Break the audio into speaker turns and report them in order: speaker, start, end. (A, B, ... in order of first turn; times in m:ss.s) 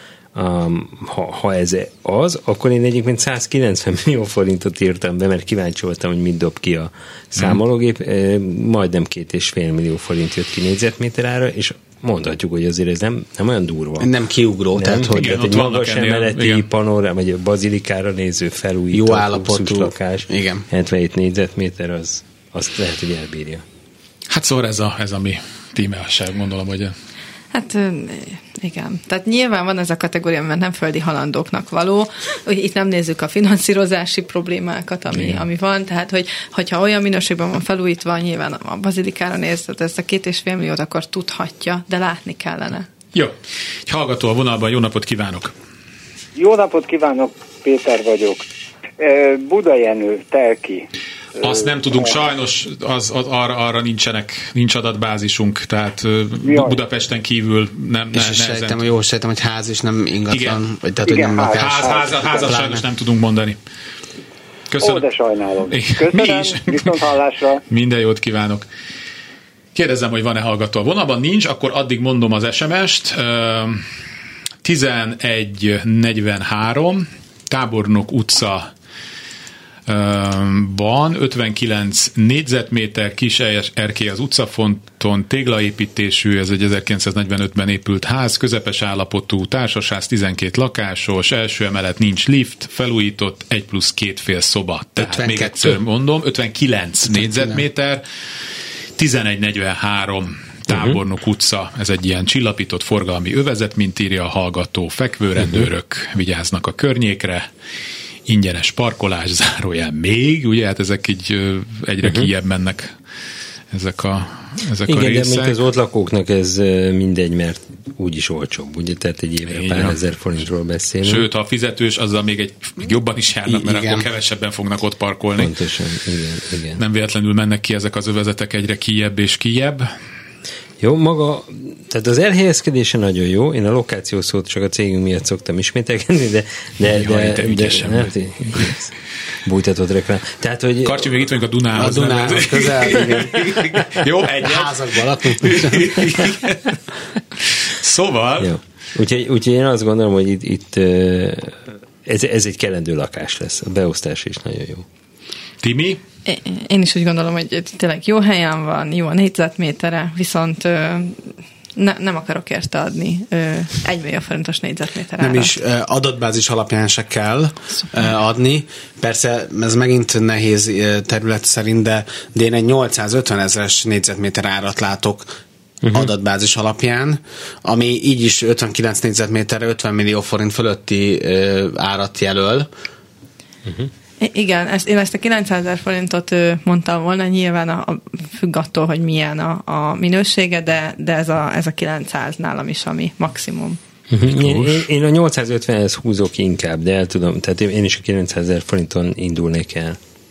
0:00.3-0:14.1 A
0:14.0-0:15.4 B
0:14.7-0:23.6 A
0:15.1-0:16.6 C
0:18.9-0:20.6 B
0:24.3-0:26.9 C
0:27.5-0:42.9 D
0:35.1-0:35.4 A
0:43.9-0:45.5 C
0:46.4-0:48.5 E
0:49.0-0:50.8 E
0:51.4-0:52.2 E
0:51.4-0:58.8 C
0:56.4-0:56.8 E
0:58.1-1:02.8 B
1:00.3-1:00.6 C
1:01.0-1:02.6 E
1:01.5-1:03.6 C
1:04.7-1:05.1 C
1:04.8-1:07.6 E
1:05.7-1:07.0 C
1:07.7-1:08.6 C
1:09.7-1:13.8 C
1:14.6-1:18.7 C
1:19.9-1:38.0 C
1:35.0-1:35.8 B
1:37.0-1:37.6 B
1:39.0-1:47.5 C
1:40.7-1:41.0 A
1:45.4-1:45.7 A
1:48.3-1:52.9 C
1:52.0-1:52.3 A
1:53.7-1:55.6 C
1:54.8-2:01.3 A
1:59.4-2:00.0 C
2:01.0-2:05.5 C
2:03.5-2:04.0 B
2:05.4-2:06.8 A
2:06.8-2:09.9 C
2:10.8-2:18.9 A
2:16.9-2:18.7 C
2:19.4-2:21.2 A
2:20.8-2:26.8 C
2:21.7-2:23.8 B
2:24.4-2:26.0 B
2:27.4-2:28.5 C
2:28.4-2:34.8 A
2:35.6-2:36.0 C
2:36.2-2:41.2 D
2:41.8-2:45.6 D
2:45.2-2:55.3 B
2:55.8-2:56.1 A
2:55.9-3:02.7 B
3:03.6-3:03.9 A
3:04.2-3:13.8 D
3:14.1-3:20.0 A
3:14.2-3:14.8 C